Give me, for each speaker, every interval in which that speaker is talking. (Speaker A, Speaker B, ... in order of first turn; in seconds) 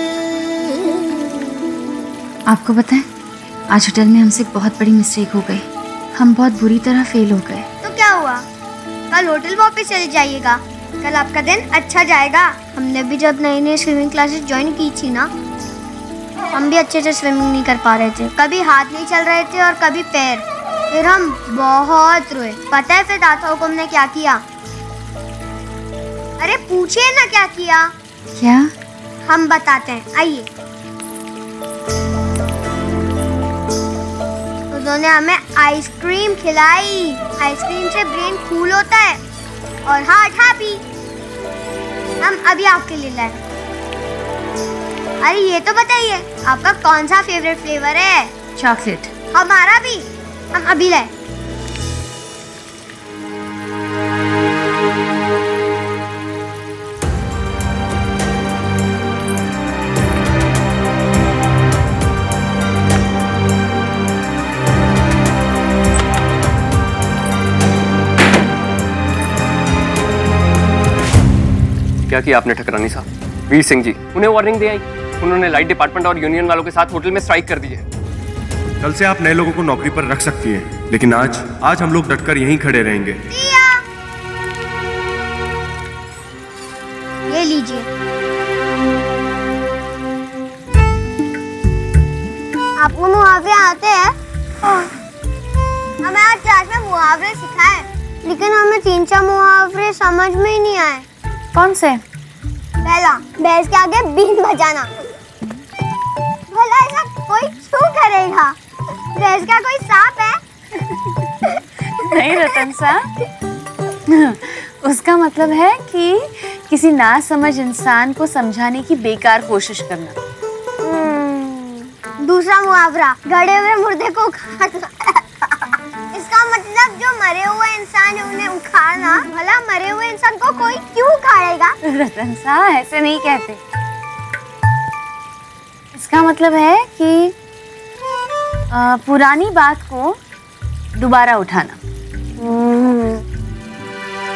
Speaker A: 2.5-3.1, 3.7-7.7, 28.4-28.7
Speaker B: 7.8-8.4, 9.1-15.3, 16.5-24.4, 26.4-27.9, 29.3-30.5, 34.7-39.2, 39.9-40.8, 42.2-43.4, 45.2-48.3, 49.3-51.1, 83.3-83.8, 87.3-87.9, 92.8-94.1, 96.0-101.0, 102.8-104.9, 106.5-108.6, 109.2-110.4, 120.8-125.2, 126.1-131.8, 142.4-143.2
Speaker C: 48.6-49.1, 101.6-102.0, 112.0-113.1, 114.1-120.2, 131.9-133.6, 135.9-137.3, 138.7-140.2, 141.0-141.8
Speaker D: 72.1-77.8
Speaker E: 78.8-83.2